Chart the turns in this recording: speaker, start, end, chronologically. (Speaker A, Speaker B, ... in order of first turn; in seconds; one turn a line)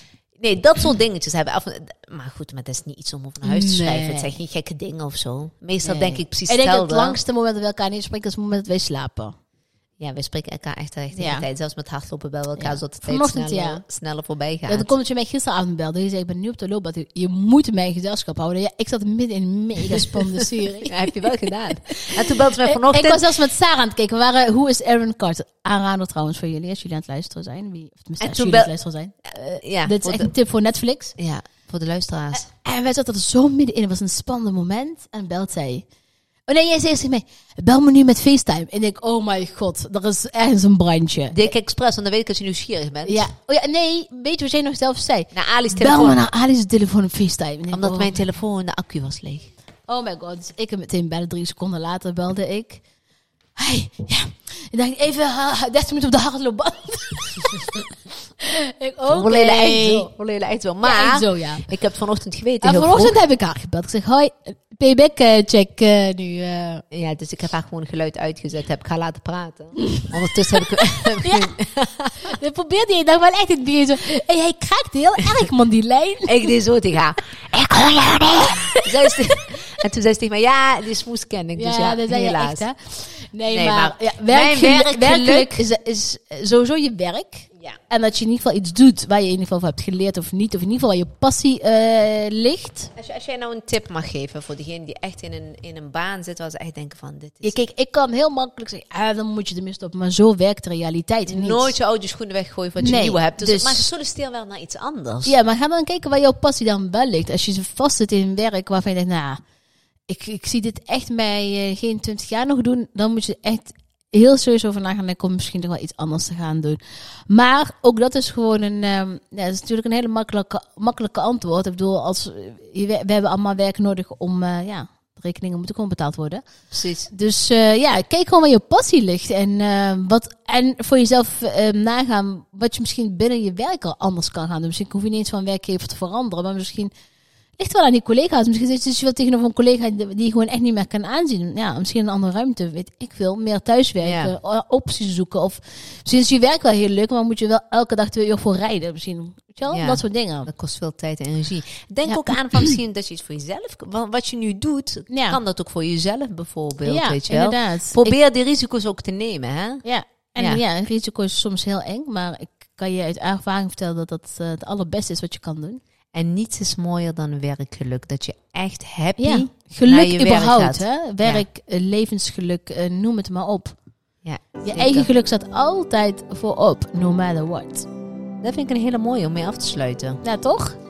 Speaker A: 0.4-7.2
Speaker B: 3.4-4.3
Speaker B: 5.8-9.3
Speaker A: 10.0-14.9
Speaker B: 11.1-11.5
Speaker B: 12.6-13.8
Speaker B: 14.7-31.1
Speaker A: 19.9-23.3
Speaker A: 28.2-28.7
Speaker A: 29.6-30.3
Speaker A: 31.2-32.5
Speaker B: 32.3-35.9
Speaker B: 36.5-41.4
Speaker A: 41.3-43.3
Speaker B: 43.0-48.2
Speaker A: 45.3-46.2
Speaker A: 47.7-49.5
Speaker B: 49.9-52.8
Speaker B: 53.6-57.8
Speaker B: 58.4-60.1
Speaker A: 59.1-63.1
Speaker B: 60.8-61.7
Speaker B: 62.6-66.8
Speaker A: 66.9-72.3
Speaker B: 69.8-71.6
Speaker B: 72.2-76.5
Speaker A: 76.3-82.6
Speaker B: 78.4-79.1
Speaker B: 81.6-92.9
Speaker A: 83.5-85.7
Speaker A: 93.0-97.5
Speaker B: 97.4-101.8
Speaker A: 101.3-105.3
Speaker B: 102.8-103.8
Speaker B: 105.2-109.4
Speaker B: 110.1-126.4
Speaker A: 126.7-127.1
Speaker B: 127.1-136.9
Speaker B: 137.6-150.5
Speaker A: 144.0-144.3
Speaker A: 149.7-159.8
Speaker B: 152.1-152.7
Speaker B: 155.1-155.4
Speaker B: 156.8-158.1
Speaker B: 159.8-165.8
Speaker A: 166.1-171.4
Speaker B: 169.2-173.8
Speaker A: 174.2-175.1
Speaker B: 174.6-177.9
Speaker A: 178.4-180.2
Speaker B: 180.2-180.8